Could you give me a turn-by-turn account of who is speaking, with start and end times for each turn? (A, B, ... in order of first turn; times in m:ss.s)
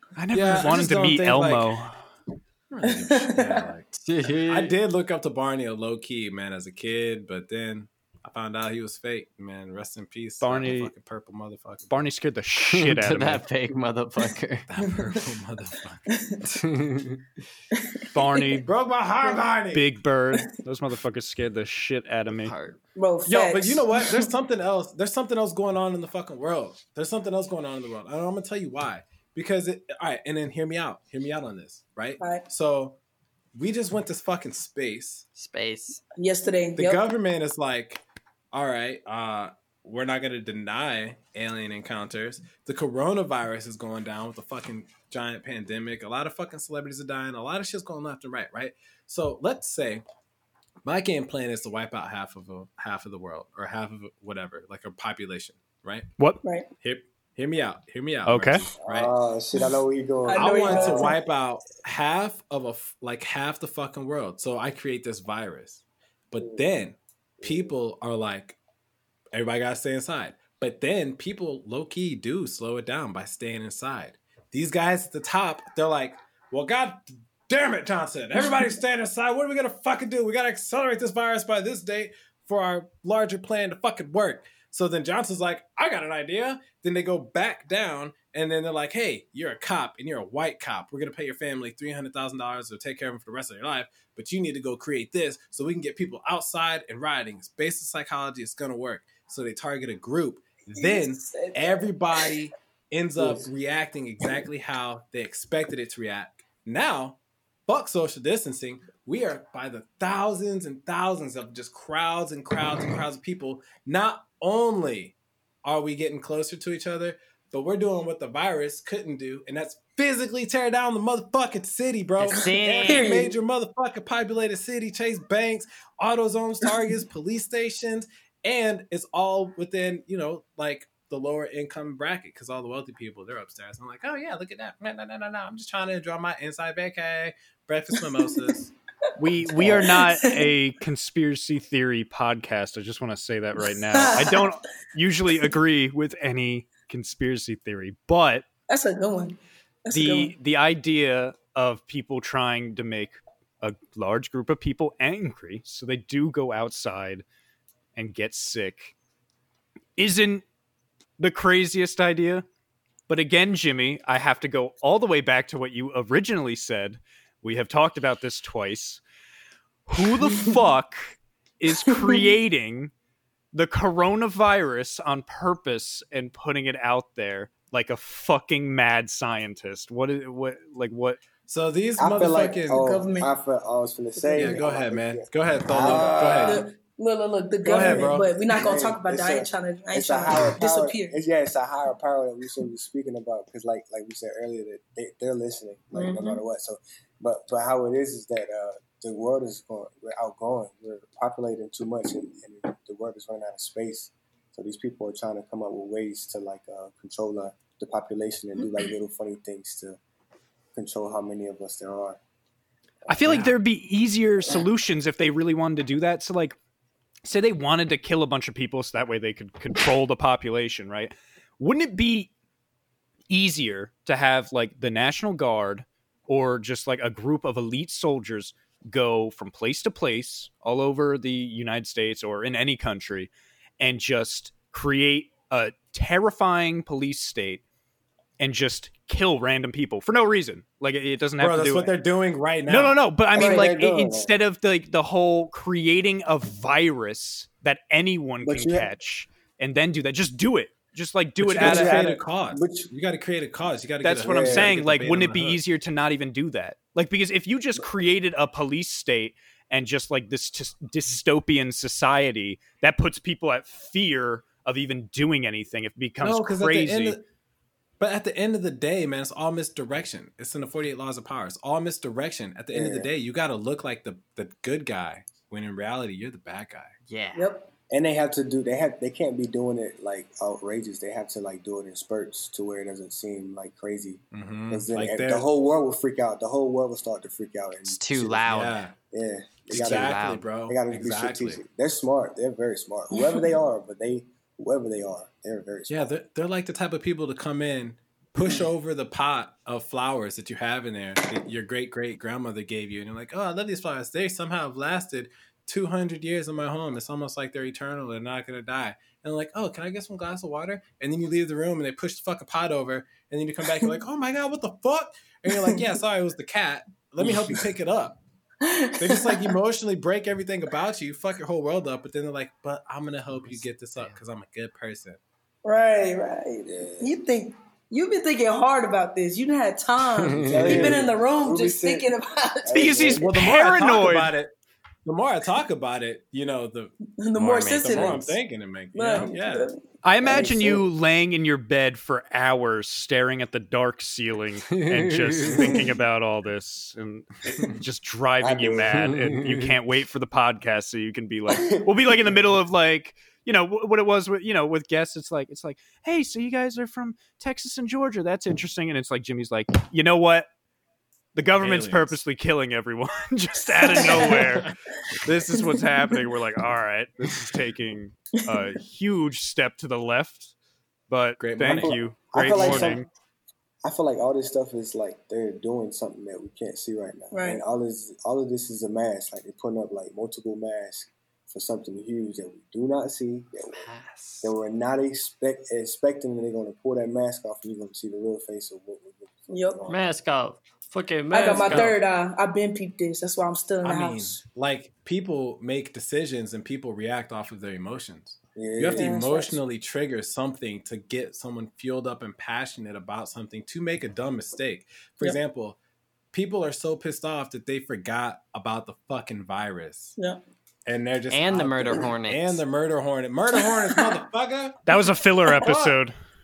0:00.2-0:02.0 A
0:00.3-0:01.8 B
0:02.7-0:12.0 B
0:02.9-0:03.6 C
0:04.0-0:04.7 D
0:10.4-0:10.9 A
0:11.9-0:13.4 A
0:12.7-0:14.7 D
0:14.7-0:16.0 B
0:16.1-0:16.4 C
0:16.6-0:17.2 D
0:17.8-0:18.0 C
0:18.1-0:18.7 A
0:18.6-0:19.9 B
0:19.7-0:22.5 A
0:22.3-0:22.8 D
0:22.9-0:24.3 C
0:23.2-0:33.0 B
0:32.2-0:32.5 C
0:33.5-0:35.2 B
0:35.4-0:36.0 D
0:36.2-0:37.0 C
0:36.8-0:50.0 B
0:50.8-0:56.1 B
0:56.8-0:59.1 B
0:58.2-0:58.6 A
0:58.8-1:01.1 E
1:00.2-1:01.2 C
1:00.3-1:08.6 B
1:07.4-1:07.7 E
1:09.3-2:18.7 B
1:40.7-1:42.4 C
1:43.2-1:43.5 E
2:02.2-2:03.1 D
2:02.4-2:03.4 C
2:19.2-2:28.5 A
2:19.5-2:20.5 C
2:23.9-2:24.5 C
2:28.7-2:30.3 C
2:29.9-2:37.2 A
2:38.0-2:38.9 A
2:40.0-2:40.4 A
2:41.2-2:42.4 A
2:43.1-2:49.0 A
2:49.9-2:52.9 A
2:52.1-2:52.3 C
2:53.5-3:01.2 A
3:01.4-3:02.9 B
3:02.0-3:06.6 E
3:02.7-3:03.3 C
3:04.2-3:04.7 C
3:04.3-3:06.6 B
3:05.8-3:11.1 C
3:07.6-3:08.5 B
3:07.7-3:30.0 E
3:15.9-3:16.4 C
3:30.7-3:32.2 E
3:33.1-3:36.6 A
3:33.2-3:33.5 B
3:37.2-3:42.3 A
3:43.3-3:57.6 A
3:58.4-4:01.9 A
4:01.4-4:03.0 B
4:02.6-4:12.0 A
4:03.3-4:04.3 E
4:03.4-4:03.7 C
4:08.4-4:08.9 E
4:11.4-4:15.6 B
4:11.6-4:12.9 E
4:14.0-4:27.2 A
4:14.2-4:14.8 E
4:26.2-4:27.2 B
4:28.0-4:36.9 B
4:32.7-4:33.1 E
4:37.1-4:37.5 D
4:37.3-4:37.7 C
4:37.9-4:48.5 E
4:44.3-4:45.5 B
4:47.9-4:48.8 D
4:48.4-4:48.9 B
4:49.1-4:56.1 E
4:49.7-4:51.6 B
4:49.7-4:50.4 D
4:55.9-5:18.2 B
5:15.5-5:15.8 C
5:18.6-5:19.5 C
5:19.0-5:25.2 B
5:23.4-5:24.2 D
5:25.6-5:33.0 C
5:26.6-5:27.1 E
5:30.1-5:31.0 D
5:30.4-5:32.1 E
5:30.5-5:30.9 B
5:32.6-5:33.3 E
5:32.7-5:34.3 A
5:33.2-5:39.7 B
5:37.2-5:38.4 C
5:38.9-5:39.8 C
5:40.0-6:00.5 A
5:40.2-5:40.8 E
5:44.9-5:45.8 D
5:48.4-5:49.0 E
5:48.9-5:49.7 D
5:51.5-5:51.9 E
6:01.3-6:04.7 A
6:01.6-6:02.2 B
6:03.8-6:04.4 C
6:04.5-6:04.7 B
6:05.2-6:10.5 A
6:11.1-6:13.1 A
6:11.4-6:12.0 B
6:11.6-6:13.0 E
6:12.5-6:13.0 B
6:13.8-6:23.9 E
6:17.3-6:17.6 C
6:23.7-6:24.5 D
6:24.4-6:30.0 E
6:29.5-6:29.8 C
6:29.9-6:32.0 D
6:31.3-6:34.4 C
6:31.5-6:32.0 B
6:33.8-6:45.8 B
6:38.5-6:39.2 E
6:38.9-6:39.6 C
6:46.3-6:50.2 B
6:50.8-6:54.9 B
6:51.3-6:52.6 D
6:53.6-6:54.2 C
6:54.8-6:56.1 A
6:55.6-6:56.0 B